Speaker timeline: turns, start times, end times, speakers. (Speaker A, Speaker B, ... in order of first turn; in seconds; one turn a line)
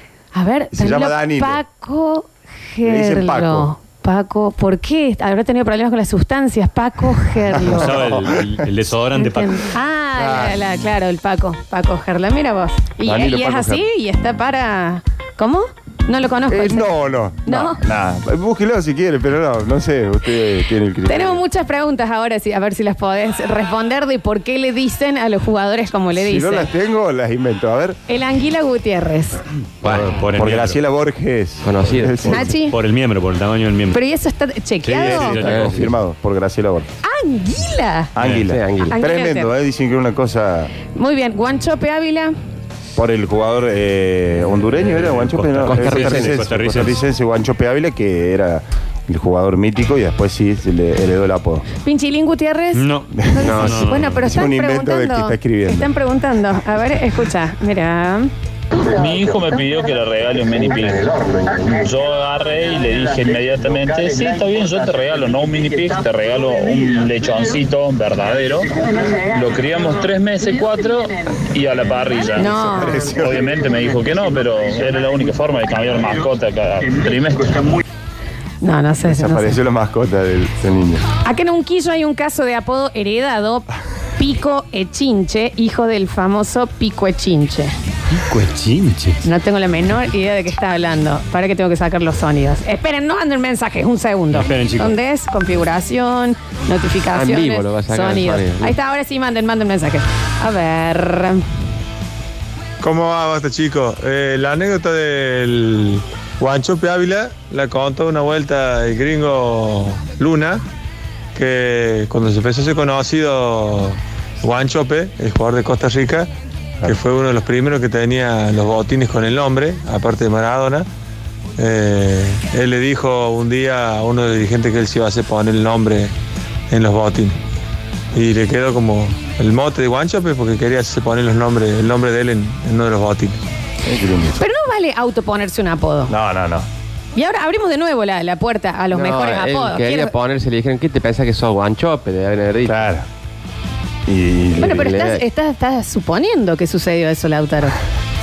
Speaker A: 0.3-7.9
Speaker B: 0.7-1.6
Speaker B: 2.8-3.7
Speaker B: 7.5-8.7
Speaker C: 7.7-9.7
Speaker A: 9.2-16.9
Speaker B: 10.2-10.6
Speaker B: 13.0-13.8
Speaker B: 16.5-21.4
Speaker A: 17.4-17.8
Speaker A: 21.1-26.7
Speaker B: 26.1-28.0
Speaker A: 28.1-29.4
Speaker C: 29.8-30.8
Speaker B: 30.3-32.5
Speaker D: 31.6-32.4
Speaker A: 32.3-32.8
Speaker C: 32.6-34.0
Speaker A: 33.9-35.4
Speaker B: 34.9-36.9
Speaker C: 34.9-35.9
Speaker D: 35.4-35.8
Speaker A: 37.0-38.1
Speaker B: 38.2-40.7
Speaker D: 38.3-39.0
Speaker A: 38.8-39.5
Speaker A: 40.9-42.3
Speaker B: 43.0-51.7
Speaker C: 45.0-47.0
Speaker D: 45.6-46.4
Speaker A: 51.8-58.3
Speaker C: 52.7-54.2
Speaker D: 53.4-53.8
Speaker B: 54.2-55.9
Speaker E: 58.9-68.7
Speaker E: 69.3-77.8
Speaker A: 72.4-73.0
Speaker B: 72.4-73.5
Speaker A: 78.6-79.6
Speaker B: 79.0-81.0
Speaker A: 81.2-87.7
Speaker C: 88.1-89.2
Speaker A: 89.2-101.4
Speaker C: 94.3-95.0
Speaker D: 97.1-98.7
Speaker F: 102.8-110.6
Speaker F: 111.3-116.3
Speaker F: 116.8-120.9
Speaker F: 121.6-126.1
Speaker F: 126.7-127.4
Speaker F: 128.1-133.4
Speaker B: 133.8-134.4
Speaker A: 134.4-136.1
Speaker B: 136.1-136.7
Speaker A: 137.2-140.1
Speaker D: 138.9-142.9
Speaker B: 142.7-143.1
Speaker B: 144.1-144.9
Speaker A: 144.6-147.8
Speaker D: 144.7-145.2